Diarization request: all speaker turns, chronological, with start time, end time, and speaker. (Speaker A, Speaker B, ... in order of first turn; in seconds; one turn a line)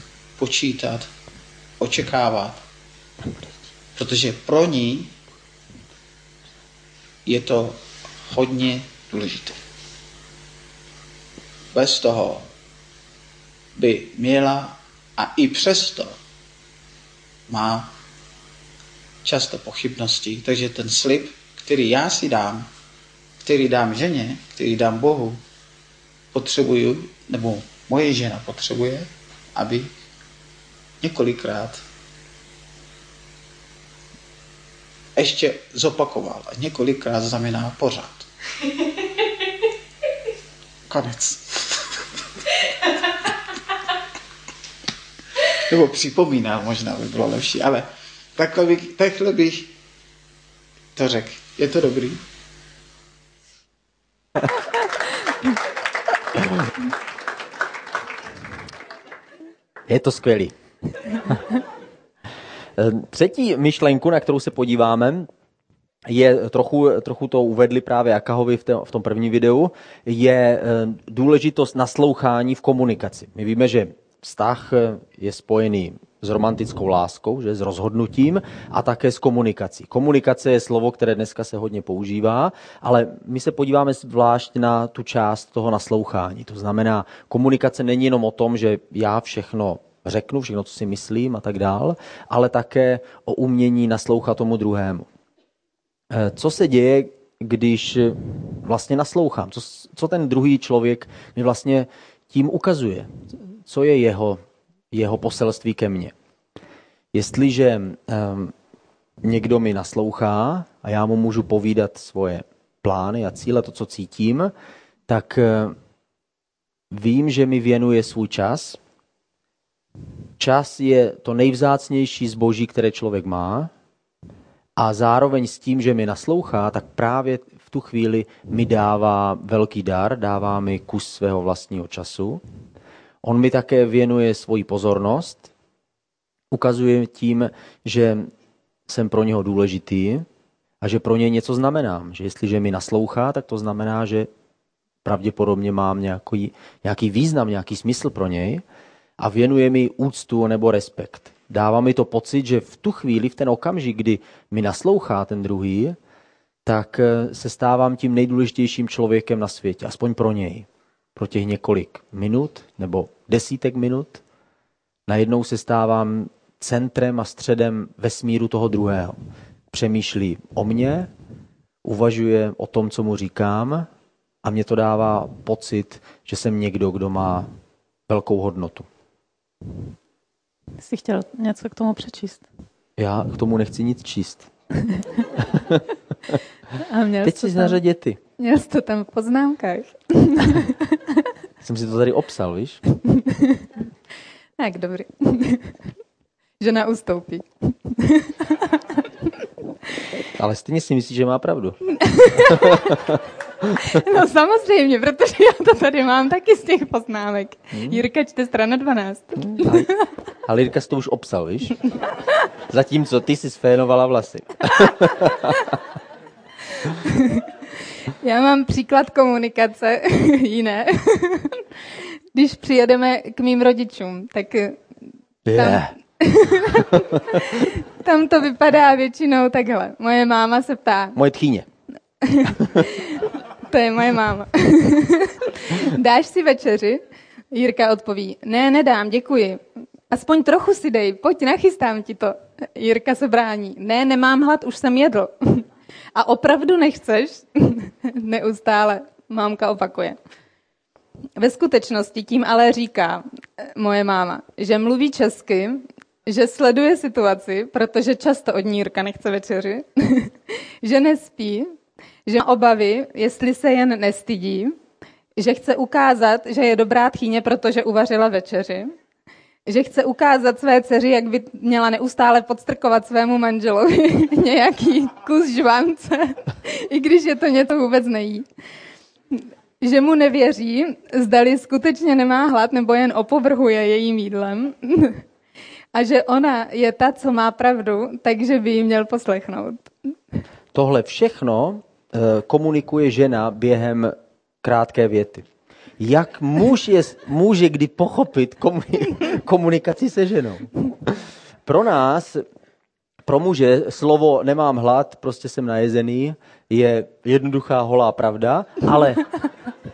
Speaker A: 0.4-1.1
Speaker A: 1.8-2.6
Speaker A: 3.9-5.2
Speaker A: 7.2-9.6
Speaker A: 11.7-12.5
Speaker A: 13.7-16.2
Speaker A: 17.5-17.9
Speaker A: 19.2-22.7
Speaker A: 23.4-25.4
Speaker A: 26.3-29.9
Speaker A: 31.0-31.8
Speaker A: 35.1-38.3
Speaker A: 40.9-42.2
Speaker A: 45.5-49.7
Speaker A: 50.9-52.2
Speaker B: 59.9-60.5
Speaker B: 62.8-65.3
Speaker B: 66.0-95.1
Speaker B: 96.1-103.1
Speaker B: 103.7-104.4
Speaker B: 104.9-106.1
Speaker B: 107.1-108.5
Speaker B: 109.2-114.5
Speaker B: 115.1-115.7
Speaker B: 116.9-118.8
Speaker B: 120.4-123.7
Speaker B: 124.8-132.4
Speaker B: 133.2-135.5
Speaker B: 136.5-138.3
Speaker B: 138.9-140.2
Speaker B: 140.8-144.3
Speaker B: 145.0-148.6
Speaker B: 149.2-156.0
Speaker B: 156.6-164.2
Speaker B: 165.1-169.2
Speaker B: 169.7-171.1
Speaker B: 171.8-173.9
Speaker B: 174.4-177.5
Speaker B: 178.1-178.9
Speaker C: 180.8-182.4
Speaker B: 183.0-184.5
Speaker B: 185.5-186.4
Speaker C: 186.8-187.8
Speaker B: 187.2-188.2
Speaker C: 188.4-191.2
Speaker B: 191.6-192.8
Speaker C: 193.1-193.7
Speaker C: 194.6-195.8
Speaker C: 196.6-199.0
Speaker B: 200.3-201.8
Speaker C: 202.0-202.9
Speaker B: 202.4-203.7
Speaker C: 203.8-209.8
Speaker B: 207.7-208.0
Speaker B: 209.4-209.9
Speaker B: 210.4-211.8
Speaker B: 212.7-215.6
Speaker C: 217.0-217.5
Speaker C: 218.1-224.8
Speaker B: 225.4-225.9
Speaker C: 225.5-231.2
Speaker B: 231.2-231.7
Speaker C: 232.2-250.2
Speaker C: 251.4-261.7
Speaker C: 262.2-264.8
Speaker C: 265.4-268.9
Speaker C: 269.6-278.4
Speaker C: 279.3-285.2
Speaker C: 285.9-290.1
Speaker B: 290.7-295.4
Speaker B: 296.0-302.4
Speaker B: 303.2-309.2